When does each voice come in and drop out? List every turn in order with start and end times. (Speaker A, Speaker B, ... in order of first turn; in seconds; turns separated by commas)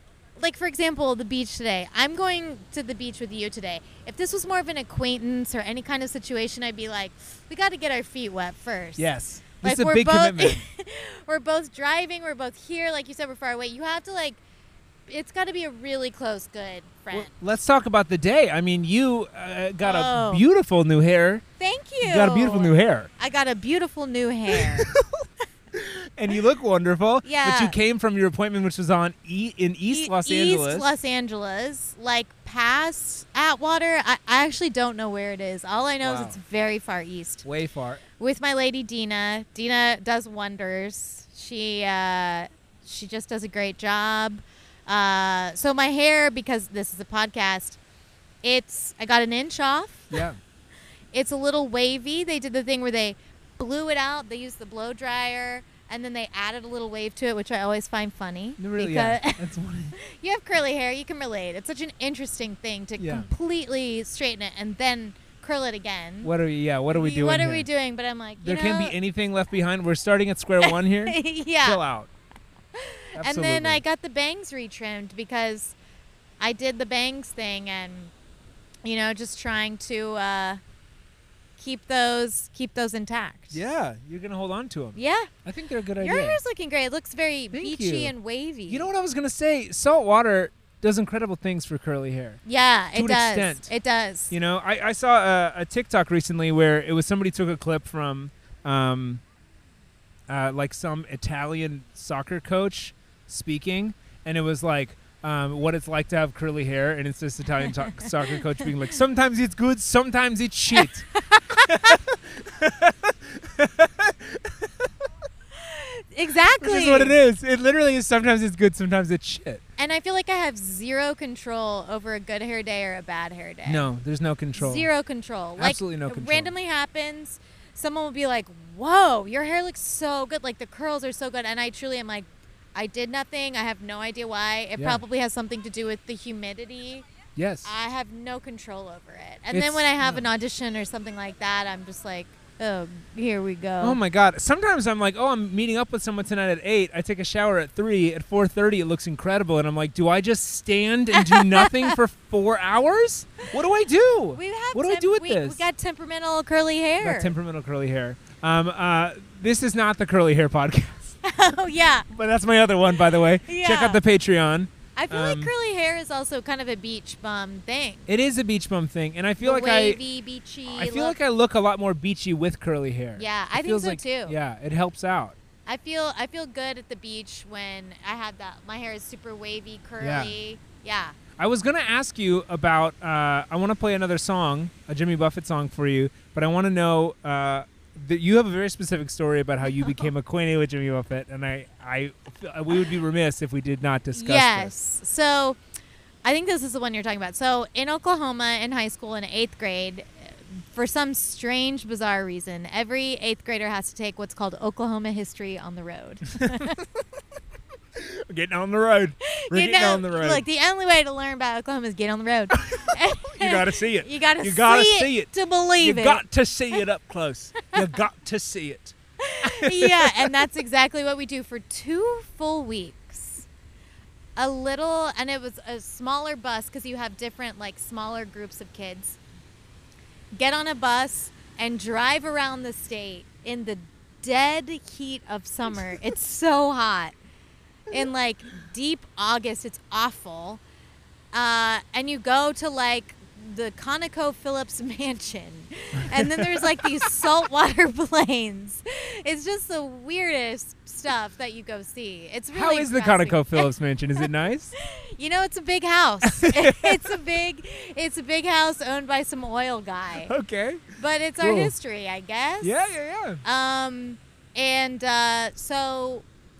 Speaker A: 0.4-9.1, Speaker B: 9.0-10.6, Speaker A: 9.6-14.4, Speaker A: 15.1-17.3, Speaker B: 17.1-21.4, Speaker A: 19.8-20.4, Speaker A: 21.6-24.9, Speaker B: 22.0-23.1, Speaker B: 24.6-25.2, Speaker B: 25.7-30.9, Speaker A: 27.2-27.8, Speaker A: 29.9-37.4, Speaker B: 36.0-36.4, Speaker B: 37.4-38.0, Speaker A: 38.2-47.8, Speaker A: 48.4-50.2, Speaker B: 50.1-50.4, Speaker A: 51.1-59.4, Speaker B: 58.6-60.0, Speaker A: 60.0-66.3, Speaker B: 63.0-63.3, Speaker B: 66.2-67.7, Speaker A: 66.9-69.0, Speaker B: 68.4-72.1, Speaker A: 70.6-71.8, Speaker A: 72.7-75.7, Speaker B: 73.2-73.8, Speaker A: 76.4-78.1, Speaker A: 78.8-80.6, Speaker A: 81.6-83.6, Speaker B: 83.5-86.4, Speaker A: 84.9-85.3, Speaker A: 86.0-88.9, Speaker B: 87.5-88.1, Speaker B: 88.7-92.4, Speaker A: 92.4-94.3, Speaker B: 92.9-93.7, Speaker B: 94.3-99.2, Speaker B: 100.3-111.1, Speaker A: 107.6-108.6, Speaker A: 110.7-112.0, Speaker B: 111.7-114.9, Speaker A: 115.5-117.2, Speaker B: 116.6-119.6, Speaker A: 119.8-123.9, Speaker B: 123.7-124.9, Speaker A: 124.5-137.1, Speaker B: 125.6-126.5, Speaker B: 134.8-135.0, Speaker B: 137.3-137.7, Speaker A: 137.6-144.0, Speaker B: 139.5-140.3, Speaker B: 143.8-155.6, Speaker A: 151.1-151.9, Speaker A: 154.3-157.3, Speaker B: 157.0-161.2, Speaker A: 161.2-162.1, Speaker B: 162.1-165.5, Speaker A: 163.0-164.0, Speaker A: 164.9-168.1, Speaker B: 168.1-170.0, Speaker A: 169.4-171.2, Speaker B: 170.7-175.3, Speaker A: 173.2-174.3, Speaker A: 175.7-181.2, Speaker B: 180.0-180.3, Speaker B: 181.4-194.7, Speaker A: 189.6-190.1, Speaker A: 194.1-195.6, Speaker A: 196.2-206.8, Speaker B: 206.4-206.7, Speaker B: 208.0-210.4, Speaker A: 209.3-216.8, Speaker B: 212.6-220.3, Speaker A: 219.2-223.4, Speaker A: 224.3-229.2, Speaker A: 230.3-237.1, Speaker A: 237.9-240.6, Speaker A: 241.3-253.7, Speaker B: 246.0-246.8, Speaker B: 252.5-254.7, Speaker A: 254.8-260.3, Speaker B: 256.2-257.1, Speaker B: 260.2-261.7, Speaker A: 261.0-262.8, Speaker B: 262.6-263.4, Speaker A: 263.4-266.2